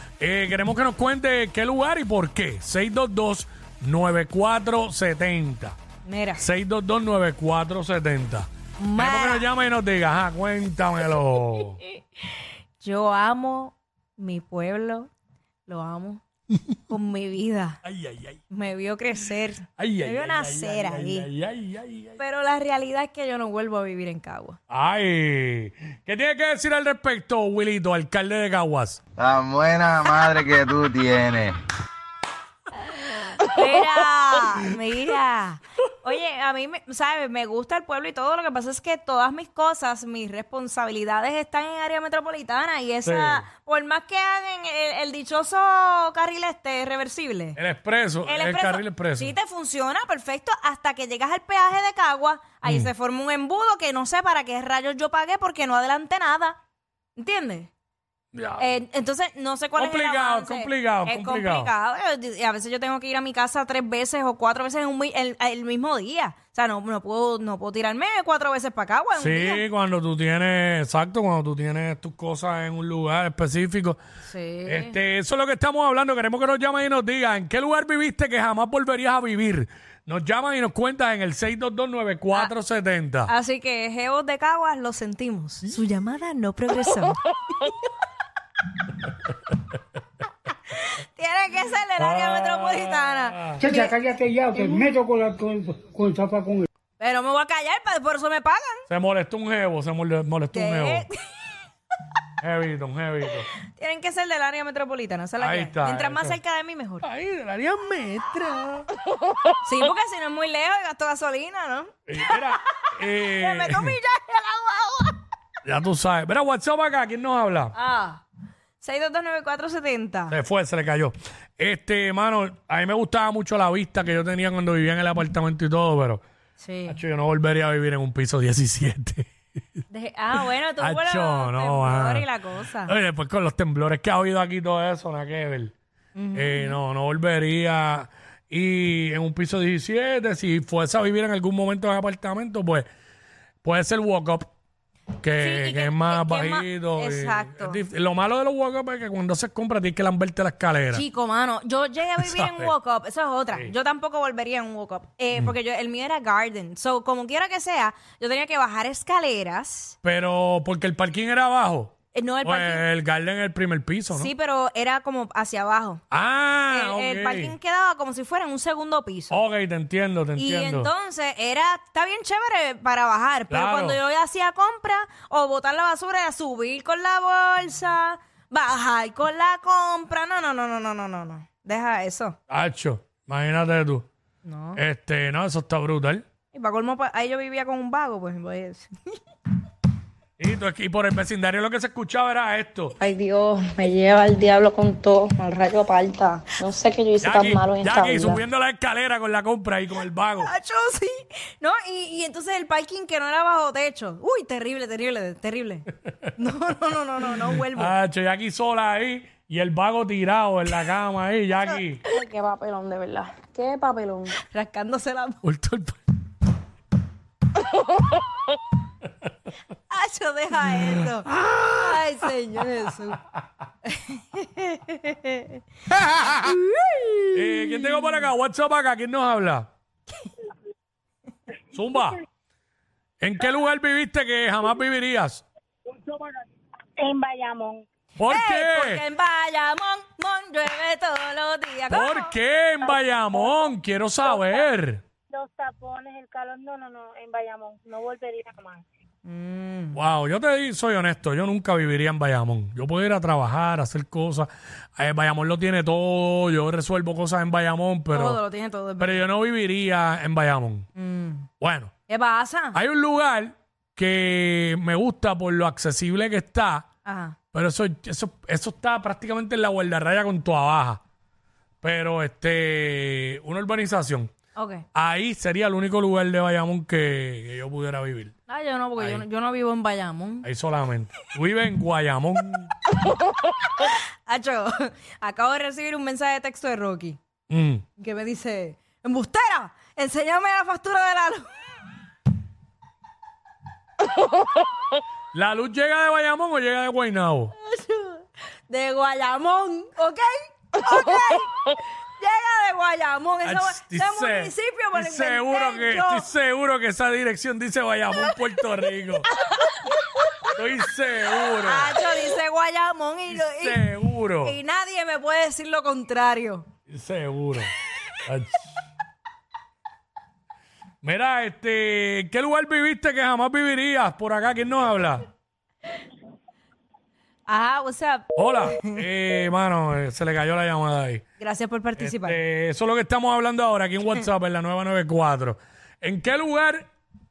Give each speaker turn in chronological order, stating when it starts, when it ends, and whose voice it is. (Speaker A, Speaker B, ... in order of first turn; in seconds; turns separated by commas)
Speaker A: 0.2-5.8, Speaker B: 6.0-6.4, Speaker A: 6.4-11.8, Speaker B: 8.8-9.5, Speaker B: 11.6-15.1, Speaker B: 15.7-16.2, Speaker B: 16.9-17.8, Speaker A: 17.8-18.4, Speaker B: 18.5-21.3, Speaker A: 19.8-22.2, Speaker B: 22.2-24.6, Speaker A: 24.7-29.0, Speaker C: 29.2-31.6, Speaker B: 33.1-47.6, Speaker A: 43.0-43.5, Speaker A: 47.6-49.4, Speaker B: 48.3-56.6, Speaker A: 52.6-52.9, Speaker B: 57.2-57.7, Speaker A: 58.3-58.8, Speaker B: 58.6-69.6, Speaker A: 59.8-61.7, Speaker A: 69.2-74.0, Speaker B: 74.2-75.0, Speaker A: 74.7-83.3, Speaker B: 83.3-87.8, Speaker B: 90.7-93.9, Speaker A: 92.0-93.6, Speaker D: 93.6-96.7, Speaker B: 94.5-94.9, Speaker B: 97.0-98.8, Speaker A: 98.9-101.1, Speaker B: 100.5-101.2, Speaker A: 102.4-103.5, Speaker B: 103.7-107.0, Speaker A: 105.4-106.4, Speaker A: 107.0-108.9, Speaker B: 109.6-115.2, Speaker A: 112.1-114.0, Speaker A: 115.7-117.8, Speaker B: 117.8-118.2, Speaker B: 118.8-120.4, Speaker A: 120.3-126.2, Speaker B: 126.6-127.0, Speaker A: 126.9-129.3, Speaker B: 129.9-132.9, Speaker A: 130.8-132.3, Speaker A: 132.8-135.7, Speaker B: 136.2-136.8, Speaker A: 136.3-142.9, Speaker A: 143.6-144.5, Speaker A: 145.2-151.0, Speaker B: 145.4-147.8, Speaker B: 150.9-160.0, Speaker A: 152.2-152.7, Speaker A: 160.0-164.3, Speaker B: 162.1-162.8, Speaker B: 164.1-166.0, Speaker A: 166.1-167.6, Speaker B: 166.7-169.4, Speaker A: 169.3-170.9, Speaker B: 170.4-182.4, Speaker A: 173.5-174.0, Speaker A: 182.5-184.1, Speaker B: 184.4-184.8, Speaker A: 184.8-186.2, Speaker B: 186.5-189.2, Speaker A: 190.4-193.0, Speaker B: 193.0-197.1, Speaker E: 196.6-198.4, Speaker A: 197.2-200.5, Speaker B: 200.4-207.9, Speaker A: 206.1-206.3, Speaker A: 207.5-212.0, Speaker E: 212.1-214.3, Speaker B: 214.3-215.4, Speaker A: 215.4-216.0, Speaker B: 219.9-223.2, Speaker A: 221.0-222.0, Speaker B: 223.8-228.1, Speaker A: 227.3-229.7, Speaker A: 231.7-232.2, Speaker A: 233.2-235.4, Speaker F: 235.9-236.3, Speaker F: 237.0-237.9, Speaker A: 238.2-239.0, Speaker B: 238.3-242.3, Speaker A: 241.9-245.0, Speaker F: 245.3-248.8, Speaker B: 249.2-250.0, Speaker A: 249.9-258.4, Speaker B: 258.1-259.2, Speaker A: 259.0-260.9, Speaker B: 261.0-261.5, Speaker A: 261.6-261.9, Speaker B: 262.1-262.8, Speaker A: 262.7-266.9, Speaker B: 267.1-267.4, Speaker A: 267.5-271.0, Speaker A: 271.8-274.3, Speaker B: 274.6-274.8, Speaker A: 274.9-278.3, Speaker B: 278.5-280.5, Speaker A: 279.0-279.3, Speaker A: 280.4-282.7, Speaker B: 283.0-287.2, Speaker A: 287.5-287.8, Speaker B: 288.0-291.5, Speaker A: 295.3-297.5, Speaker B: 297.6-306.3, Speaker A: 303.4-309.3, Speaker B: 309.4-310.5, Speaker A: 310.4-312.0, Speaker B: 311.6-313.9, Speaker A: 313.3-314.6, Speaker B: 314.4-316.7, Speaker A: 316.9-317.7, Speaker A: 318.2-318.8, Speaker A: 321.0-325.3, Speaker B: 327.5-329.0, Speaker A: 328.4-331.2, Speaker B: 331.4-332.4, Speaker A: 332.0-336.9